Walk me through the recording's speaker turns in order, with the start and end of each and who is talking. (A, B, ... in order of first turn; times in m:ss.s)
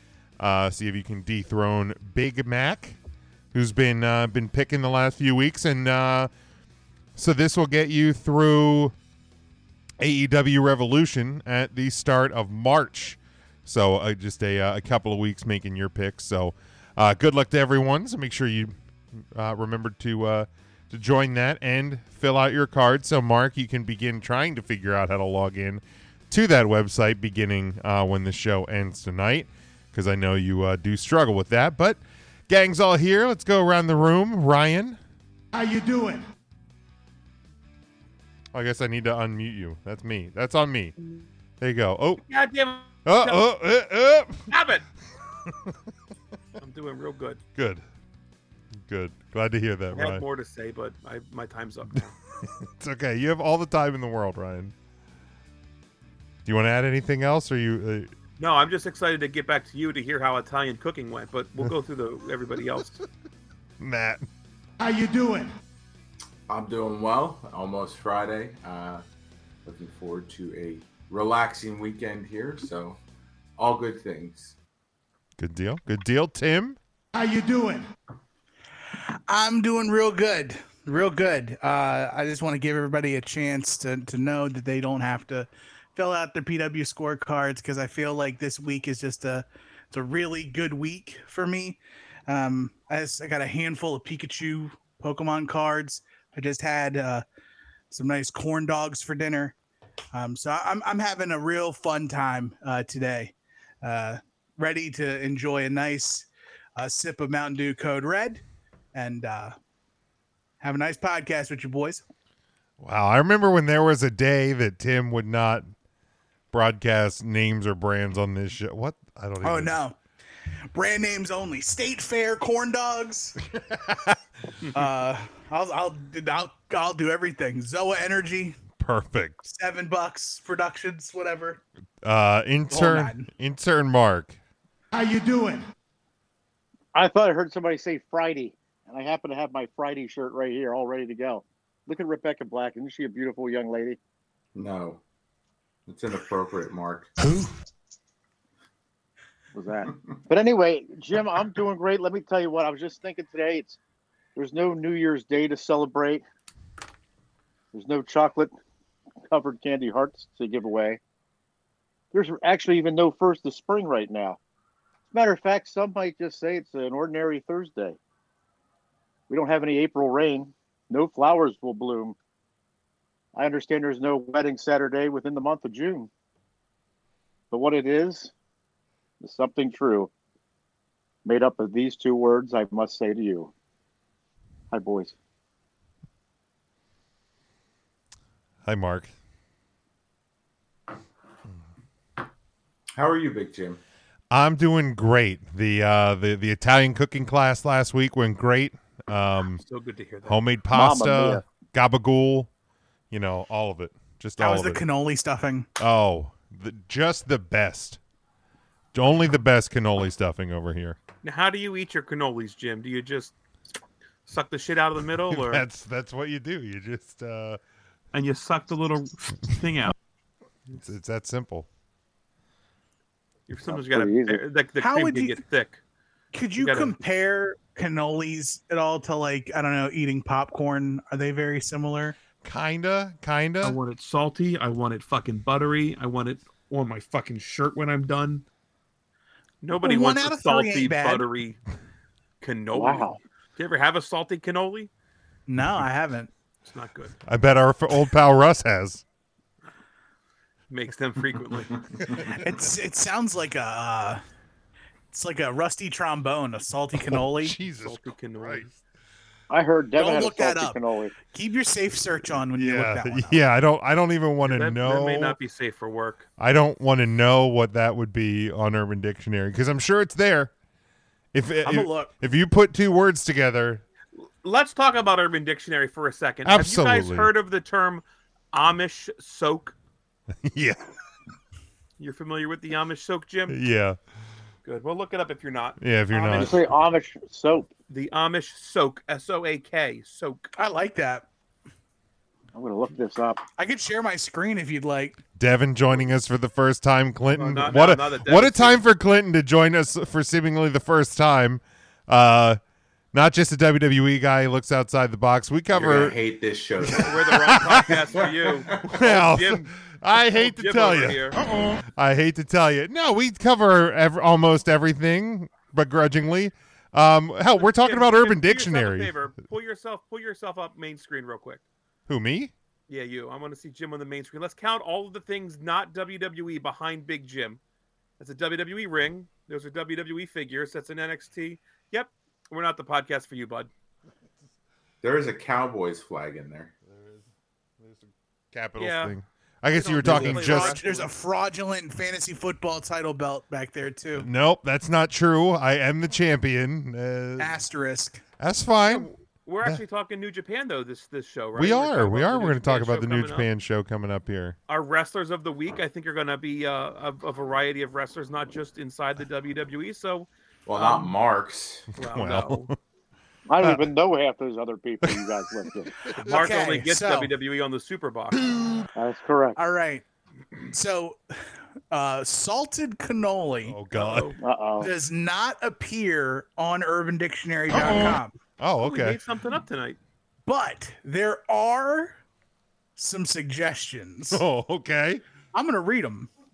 0:00.4-0:03.0 A
0:03.5-0:06.3 A
0:07.1-0:08.9 A
0:10.0-0:18.7 A
0:19.3-0:35.0 A
0:35.6-0:36.2 B
0:38.5-0:40.9 A
0:41.6-0:42.2 A
0:42.3-0:43.4 C
0:43.0-0:44.5 A
0:44.5-0:44.8 C
0:46.6-0:47.4 C
0:47.6-0:47.8 A
0:48.9-0:50.2 A
0:49.9-0:52.2 C
0:52.6-0:54.7 A
0:56.4-0:58.1 A
0:58.4-1:02.9 C
1:03.8-1:04.3 A
1:04.8-1:05.5 B
1:06.5-1:09.0 D
1:09.6-1:13.0 D
1:13.6-1:14.5 D
1:15.4-1:16.8 A
1:17.2-1:17.8 B
1:19.3-1:37.2 E
1:37.9-1:39.5 E
1:40.1-1:48.4 E
1:48.9-1:49.5 E
1:50.6-1:52.0 E
1:52.8-1:55.7 A
1:56.5-1:59.8 A
1:59.4-2:00.0 E
2:00.7-2:03.4 E
2:03.5-2:04.2 A
2:04.7-2:08.6 E
2:08.8-2:09.4 A
2:09.4-2:11.6 E
2:12.0-2:14.4 A
2:12.7-2:13.3 E
2:14.9-2:15.6 B
2:16.9-2:24.0 F
2:24.5-2:25.0 D
2:25.9-2:27.1 D
2:27.2-2:27.5 B
2:29.5-2:33.8 F
2:34.4-2:36.2 F
2:37.7-2:38.5 F
2:39.3-2:41.0 F
2:42.1-2:44.4 F
2:45.1-2:48.0 F
2:49.3-2:52.2 F
2:53.3-2:56.1 F
2:57.5-2:58.3 F
2:59.2-3:00.1 F
3:01.2-3:03.5 F
3:04.7-3:05.2 F
3:08.6-3:09.1 A
3:12.9-3:13.8 D
3:14.3-3:19.6 A
3:19.6-3:20.4 C
3:20.2-3:22.5 A
3:20.7-3:21.4 F
3:23.1-3:24.8 A
3:24.4-3:25.7 E
3:25.8-3:28.0 A
3:28.9-3:31.0 A
3:31.2-3:33.3 C
3:34.3-3:35.6 C
3:35.3-3:37.6 A
3:38.1-3:39.9 C
3:40.8-3:41.7 A
3:43.5-3:45.8 C
3:43.6-3:44.4 F
3:44.8-3:45.4 E
3:46.3-3:52.2 E
3:46.6-3:47.0 C
3:52.4-3:53.8 A
3:53.6-3:58.4 C
3:59.6-4:01.6 C
3:59.8-4:01.3 E
4:02.4-4:04.9 C
4:02.7-4:03.2 F
4:05.5-4:06.3 E
4:06.6-4:07.2 C
4:07.2-4:09.0 A
4:10.7-4:11.8 C
4:12.3-4:14.2 E
4:15.1-4:17.5 E
4:17.0-4:18.6 A
4:17.6-4:18.8 C
4:19.5-4:21.1 F
4:19.9-4:23.4 E
4:22.5-4:25.4 A
4:24.4-4:26.2 C
4:26.4-4:30.5 A
4:31.3-4:33.8 A
4:31.6-4:32.1 E
4:34.4-4:39.7 C
4:36.4-4:37.3 A
4:40.4-4:40.8 A
4:42.0-4:43.6 C
4:43.5-4:44.0 A
4:44.6-4:46.5 C
4:45.8-4:46.6 A
4:46.2-4:47.7 F
4:47.9-4:50.5 C
4:50.6-4:51.2 E
4:52.5-4:53.4 F
4:53.6-4:55.2 E
4:55.4-5:02.6 A
4:57.3-4:58.8 C
5:03.1-5:06.2 A
5:05.7-5:08.9 D
5:06.8-5:08.0 A
5:06.8-5:11.4 C
5:08.9-5:11.4 A
5:11.9-5:19.1 A
5:17.6-5:21.6 C
5:22.1-5:22.5 A
5:22.9-5:27.6 C
5:28.2-5:33.7 C
5:35.0-5:36.7 D
5:36.9-5:37.3 A
5:37.8-5:40.8 A
5:38.8-5:39.1 C
5:39.7-5:41.1 C
5:40.0-5:44.3 E
5:44.2-5:47.6 A
5:47.4-5:48.2 E
5:48.4-5:49.1 A
5:48.8-5:53.5 C
5:51.5-5:54.6 A
5:54.7-6:01.2 C
6:00.6-6:01.9 D
6:02.0-6:02.7 C
6:02.0-6:02.8 A
6:03.5-6:06.1 F
6:03.6-6:03.9 A
6:05.0-6:05.8 A
6:06.2-6:07.3 E
6:06.2-6:08.4 C
6:09.0-6:09.6 F
6:09.6-6:10.0 E
6:10.7-6:11.2 E
6:11.9-6:13.8 E
6:13.6-6:14.3 A
6:13.9-6:14.4 C
6:14.4-6:14.9 F
6:14.8-6:18.3 E
6:18.6-6:19.2 A
6:18.8-6:20.0 C
6:20.4-6:22.2 E
6:23.0-6:24.4 E
6:24.3-6:25.2 A
6:25.5-6:26.3 E